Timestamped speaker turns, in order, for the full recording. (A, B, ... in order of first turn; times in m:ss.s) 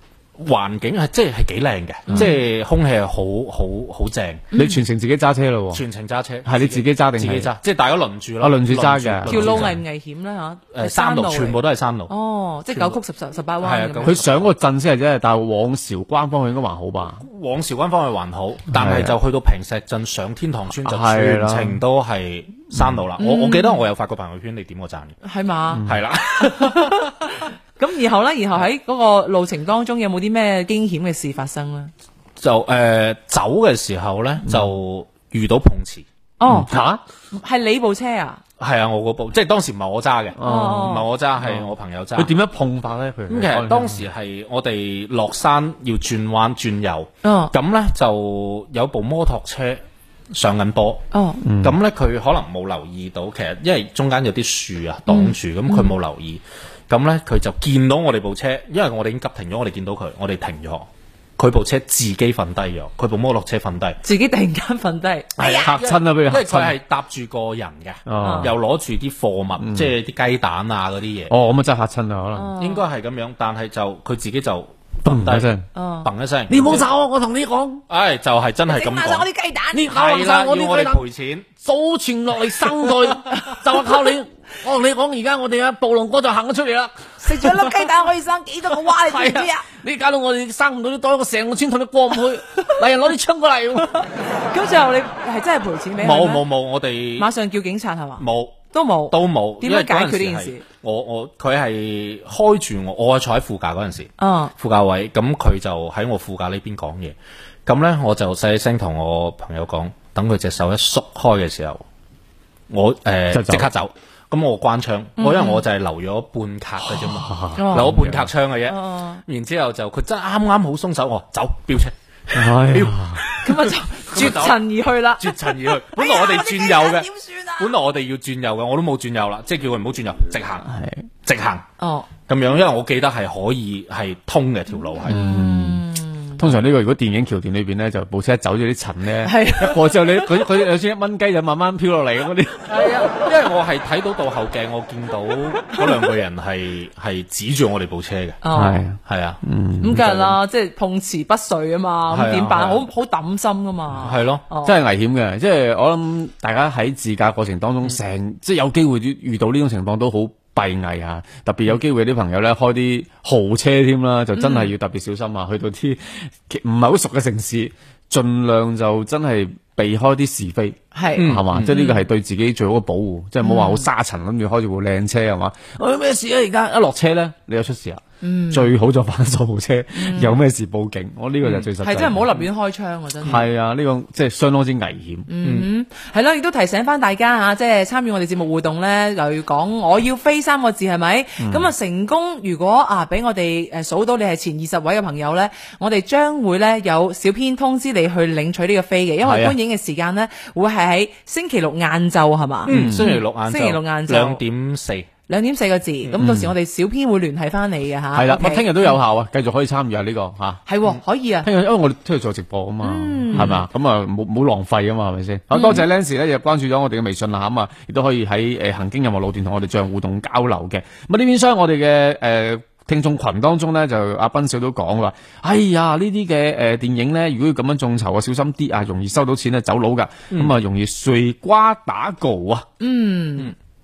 0:00.4-0:04.5 A
0:02.1-0:02.3 B
0:04.5-0:04.8 C
0:04.5-0:05.8 B
0:05.7-0:09.8 A
0:06.4-0:07.5 B
0:08.4-0:09.7 B
0:09.3-0:14.2 C
0:10.7-0:12.1 A
0:12.7-0:13.0 A
0:13.6-0:14.5 A
0:14.0-0:17.2 B
0:17.2-0:25.2 A
0:18.7-0:19.2 B
0:20.8-0:21.8 B
0:22.7-0:23.0 B
0:23.2-0:23.8 C
0:25.2-0:25.8 C
0:25.7-0:26.0 B
0:25.8-0:27.2 A
0:26.4-0:31.9 C
0:32.4-0:36.0 A
0:36.4-0:36.7 C
0:36.5-0:37.0 B
0:37.3-0:38.4 C
0:38.6-0:42.3 A
0:40.4-0:44.0 B
0:40.4-0:41.1 C
0:43.3-0:51.0 A
0:47.2-0:47.5 C
0:51.1-0:51.4 C
0:51.4-0:51.8 B
0:51.6-1:04.0 A
0:55.1-0:55.9 C
1:04.0-1:05.7 C
1:05.4-1:11.3 A
1:05.5-1:06.7 B
1:08.0-1:08.5 B
1:08.2-1:08.5 C
1:09.6-1:09.9 B
1:11.3-1:12.5 B
1:12.3-1:12.8 C
1:12.6-1:15.5 A
1:15.0-1:15.6 B
1:15.7-1:16.1 C
1:16.0-1:16.9 A
1:16.5-1:17.8 B
1:17.9-1:19.3 A
1:18.7-1:19.9 C
1:19.7-1:21.0 B
1:19.9-1:21.5 A
1:21.6-1:27.7 B
1:23.3-1:23.6 C
1:27.2-1:29.6 C
1:28.8-1:34.0 B
1:33.9-1:36.4 C
1:36.0-1:37.3 A
1:37.2-1:40.6 C
1:38.2-1:47.1 A
1:44.2-1:44.5 C
1:47.6-1:51.8 A
1:52.7-2:04.6 A
1:53.3-1:53.7 B
1:55.2-1:55.6 C
1:56.8-1:58.3 B
1:57.6-1:57.9 C
1:58.7-1:59.2 C
2:02.3-2:03.2 B
2:03.4-2:07.7 C
2:05.2-2:10.6 A
2:10.6-2:11.1 B
2:11.2-2:11.6 A
2:11.8-2:12.1 C
2:12.2-2:15.2 A
2:15.1-2:15.8 B
2:15.1-2:16.4 C
2:16.4-2:22.8 B
2:19.2-2:20.2 C
2:22.7-2:29.4 A
2:28.4-2:28.8 C
2:28.5-2:30.1 B
2:29.8-2:34.7 C
2:29.9-2:30.3 A
2:32.1-2:32.8 A
2:34.0-2:34.4 A
2:34.6-3:02.3 B
2:44.4-2:44.7 C
2:50.9-2:52.0 C
2:51.2-2:51.8 A
2:53.4-2:53.8 C
2:58.2-2:58.7 C
2:59.9-3:00.4 C
3:01.4-3:01.7 A
3:01.8-3:03.4 C
3:03.2-3:05.3 B
3:05.3-3:24.4 C
3:05.4-3:05.7 A
3:11.4-3:11.7 B
3:19.2-3:19.6 B
3:22.6-3:25.1 A
3:22.7-3:23.1 B
3:25.3-3:29.0 C
3:26.2-3:26.5 B
3:28.1-3:30.6 B
3:30.7-3:31.5 C
3:31.4-3:52.7 B
3:32.8-3:33.6 C
3:35.5-3:35.8 C
3:52.8-3:53.5 C